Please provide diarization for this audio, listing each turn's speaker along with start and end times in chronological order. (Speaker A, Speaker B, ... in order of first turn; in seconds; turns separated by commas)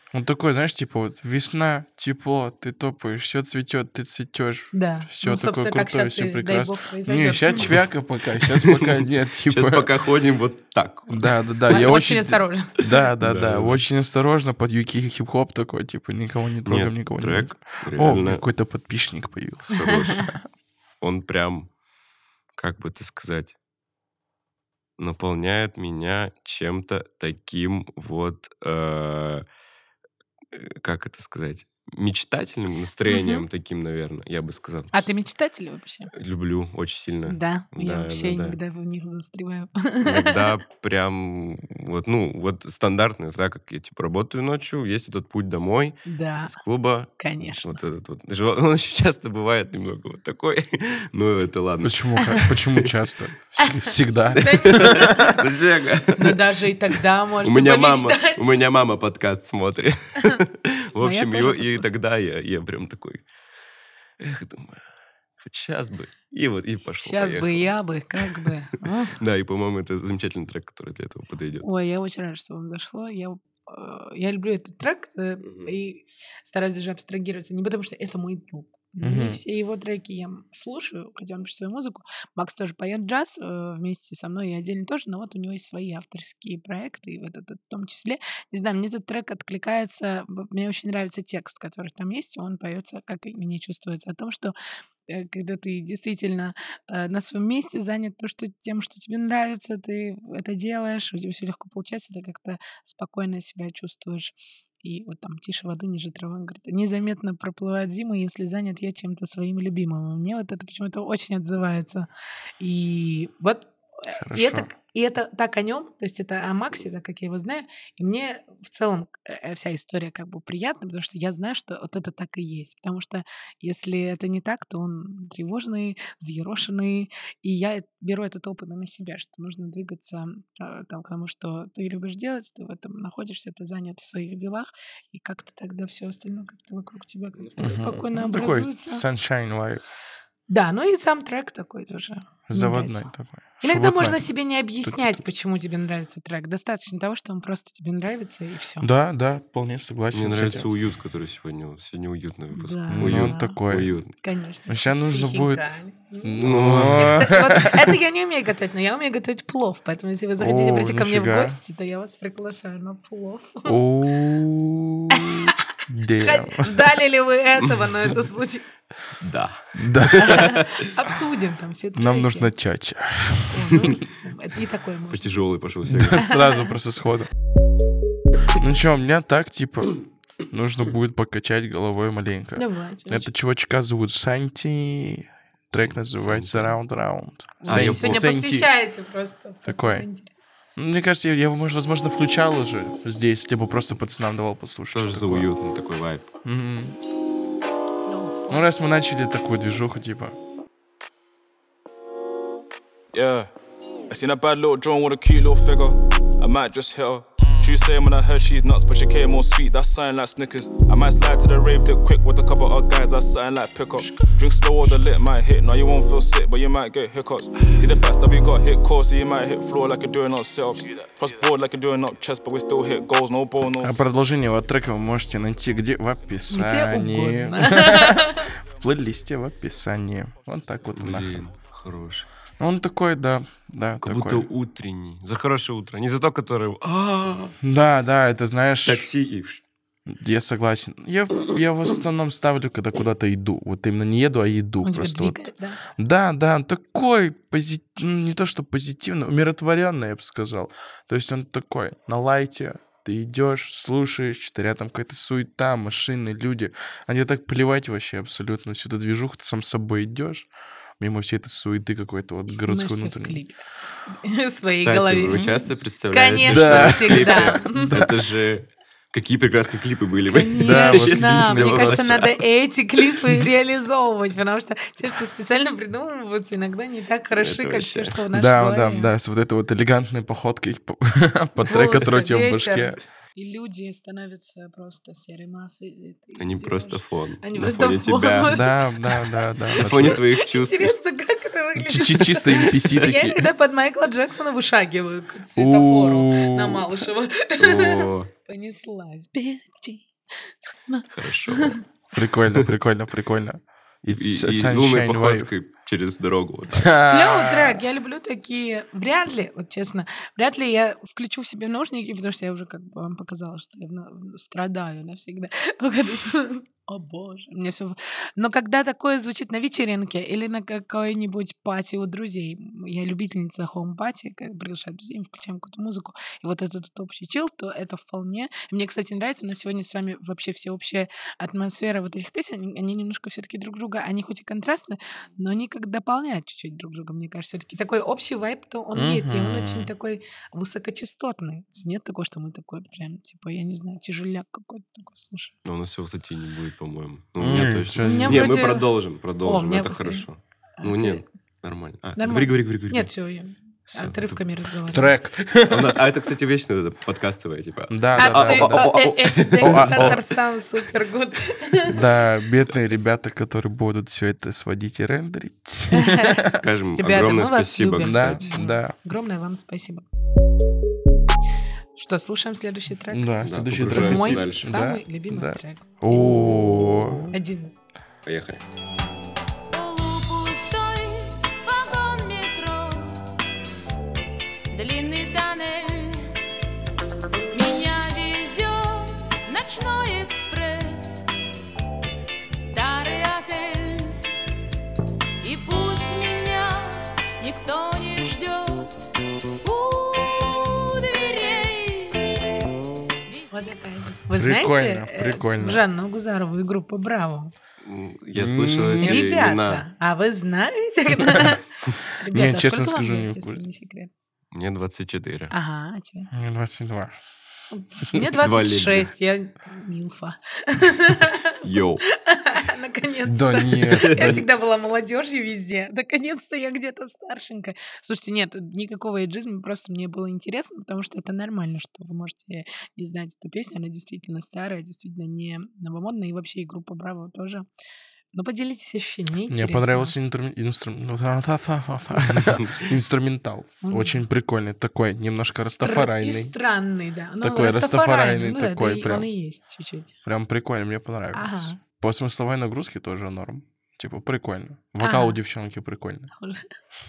Speaker A: 0.1-9.9, Speaker B: 4.7-7.7, Speaker C: 8.4-11.3, Speaker A: 11.1-20.4, Speaker B: 11.7-12.9, Speaker C: 13.2-13.8, Speaker C: 16.6-18.4, Speaker C: 19.7-20.3, Speaker C: 21.0-21.7, Speaker C: 22.6-23.6, Speaker C: 25.0-29.4, Speaker C: 30.5-35.1, Speaker B: 33.1-33.5, Speaker B: 34.9-36.1, Speaker C: 36.1-38.6, Speaker B: 37.3-40.5, Speaker C: 40.0-52.3, Speaker B: 46.1-46.6, Speaker B: 47.2-47.8, Speaker A: 51.8-55.4, Speaker B: 53.6-55.4, Speaker C: 54.3-56.4, Speaker B: 56.1-58.6, Speaker C: 57.4-63.2, Speaker B: 61.0-61.9, Speaker C: 64.2-64.8, Speaker C: 65.4-68.5, Speaker B: 67.0-69.2, Speaker C: 69.2-71.7, Speaker B: 71.6-94.5, Speaker C: 75.4-75.7, Speaker A: 79.0-79.4, Speaker B: 95.1-112.1, Speaker B: 112.6-139.1, Speaker A: 114.1-114.7, Speaker C: 137.4-137.9, Speaker A: 137.6-139.8, Speaker B: 140.5-143.1, Speaker A: 142.5-144.2, Speaker B: 143.6-148.9, Speaker A: 144.8-145.2, Speaker A: 148.8-150.7, Speaker C: 150.1-154.1, Speaker B: 152.5-153.6, Speaker A: 152.9-154.0, Speaker B: 154.2-163.8, Speaker A: 154.7-157.9, Speaker C: 156.4-157.3, Speaker A: 160.4-161.6, Speaker A: 163.7-166.9, Speaker B: 165.1-165.6, Speaker B: 166.2-168.7, Speaker C: 169.2-170.7, Speaker A: 169.8-170.3, Speaker B: 170.2-172.5, Speaker A: 172.0-173.8, Speaker B: 173.5-175.5, Speaker C: 175.1-176.2, Speaker A: 175.9-177.3, Speaker B: 176.2-176.7, Speaker A: 178.6-188.7, Speaker B: 182.6-183.3, Speaker C: 185.7-186.8, Speaker B: 187.6-190.3, Speaker C: 187.7-188.3, Speaker A: 189.7-190.1, Speaker A: 190.8-195.5, Speaker C: 194.9-196.3, Speaker A: 196.4-197.0, Speaker B: 198.1-198.7, Speaker A: 198.5-200.4, Speaker D: 203.1-203.5, Speaker D: 204.1-223.9, Speaker A: 223.8-231.5, Speaker B: 226.5-228.5, Speaker C: 230.9-232.3, Speaker A: 232.6-234.5, Speaker C: 234.0-237.6, Speaker A: 237.6-239.1, Speaker C: 238.8-239.6, Speaker A: 240.1-263.4, Speaker B: 244.8-245.8, Speaker B: 262.5-268.0, Speaker C: 264.7-272.4, Speaker A: 266.4-268.1, Speaker B: 270.3-279.1, Speaker A: 270.6-272.3, Speaker C: 277.3-278.2, Speaker A: 278.3-283.0, Speaker B: 281.6-301.8, Speaker C: 286.4-288.6, Speaker A: 288.5-290.2, Speaker C: 289.8-291.0, Speaker A: 291.8-293.5, Speaker A: 295.6-296.9, Speaker C: 297.6-298.3, Speaker C: 301.1-301.8, Speaker A: 302.1-305.5, Speaker C: 304.1-306.9, Speaker A: 306.7-307.8, Speaker B: 307.1-345.6, Speaker A: 338.9-339.9, Speaker C: 345.6-353.1, Speaker A: 347.4-348.6, Speaker B: 348.0-350.3, Speaker B: 350.8-351.3, Speaker B: 352.2-355.1, Speaker C: 353.9-355.1, Speaker A: 354.9-356.0, Speaker C: 355.7-360.2, Speaker A: 357.9-360.2, Speaker B: 358.2-362.1, Speaker A: 361.9-366.5, Speaker B: 365.9-370.1, Speaker C: 366.5-368.5, Speaker A: 368.0-368.9, Speaker B: 372.0-377.8, Speaker A: 373.1-377.4, Speaker C: 373.4-374.7, Speaker C: 378.2-378.6, Speaker E: 379.7-383.3, Speaker E: 384.7-386.4, Speaker E: 387.5-391.2, Speaker E: 392.6-394.2, Speaker E: 395.4-398.9, Speaker E: 399.6-402.4, Speaker E: 403.3-403.8, Speaker B: 403.5-407.5, Speaker A: 404.4-405.8, Speaker C: 407.8-409.9, Speaker A: 408.4-409.2, Speaker B: 409.0-414.1, Speaker A: 412.3-413.6, Speaker C: 414.5-415.5, Speaker B: 415.5-416.3, Speaker A: 416.3-417.1, Speaker B: 417.7-437.7, Speaker C: 418.2-419.1, Speaker C: 421.6-422.0, Speaker A: 423.2-424.5, Speaker C: 424.0-424.3, Speaker B: 438.3-440.1, Speaker A: 439.5-446.5, Speaker C: 442.5-442.8, Speaker B: 443.8-444.2, Speaker B: 445.6-450.2, Speaker A: 447.4-449.3, Speaker A: 450.3-456.3, Speaker B: 451.3-451.8, Speaker B: 455.0-455.4, Speaker B: 456.4-456.6